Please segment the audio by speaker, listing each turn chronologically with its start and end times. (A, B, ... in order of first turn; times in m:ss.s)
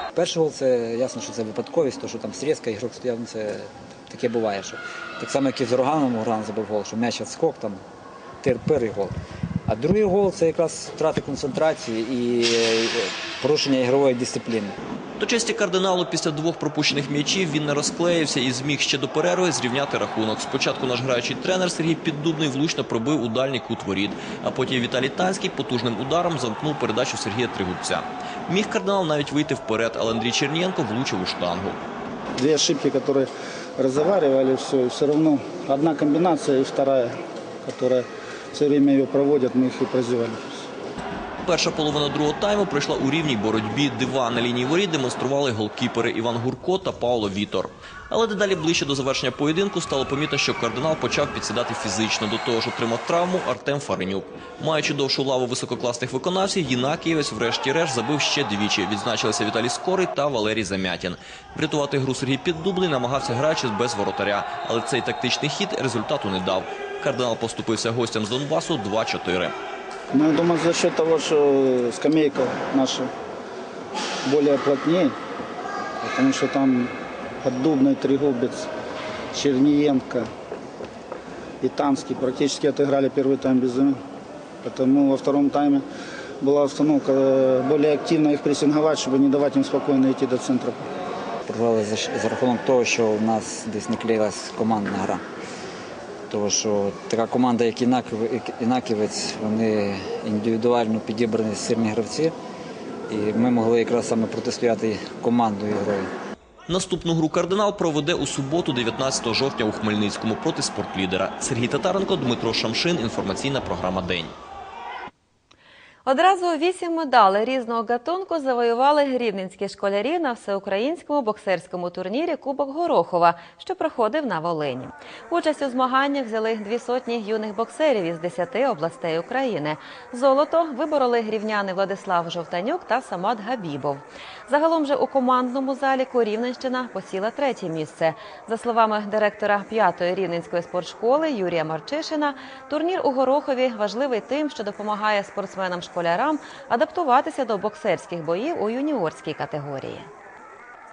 0:00.1-0:07.8 A
0:08.4-0:09.1 A
0:09.7-0:14.7 A
0:15.2-0:31.8 B
0:32.4-0:33.2 C
0:33.8-0:37.0 C
0:37.7-0:38.0 C
0:38.5-0:40.6 C
0:41.4-1:09.5 B
1:10.2-1:13.0 C
1:14.3-1:15.1 C
1:16.1-1:16.9 C
1:17.4-1:18.6 C
1:19.3-1:20.2 C
1:21.6-1:23.9 C
1:24.6-1:25.8 C
1:26.4-1:30.8 C
1:31.5-1:35.2 A
1:36.3-1:42.3 A
1:43.1-1:46.1 A
1:46.7-1:54.3 B
1:56.0-2:30.1 D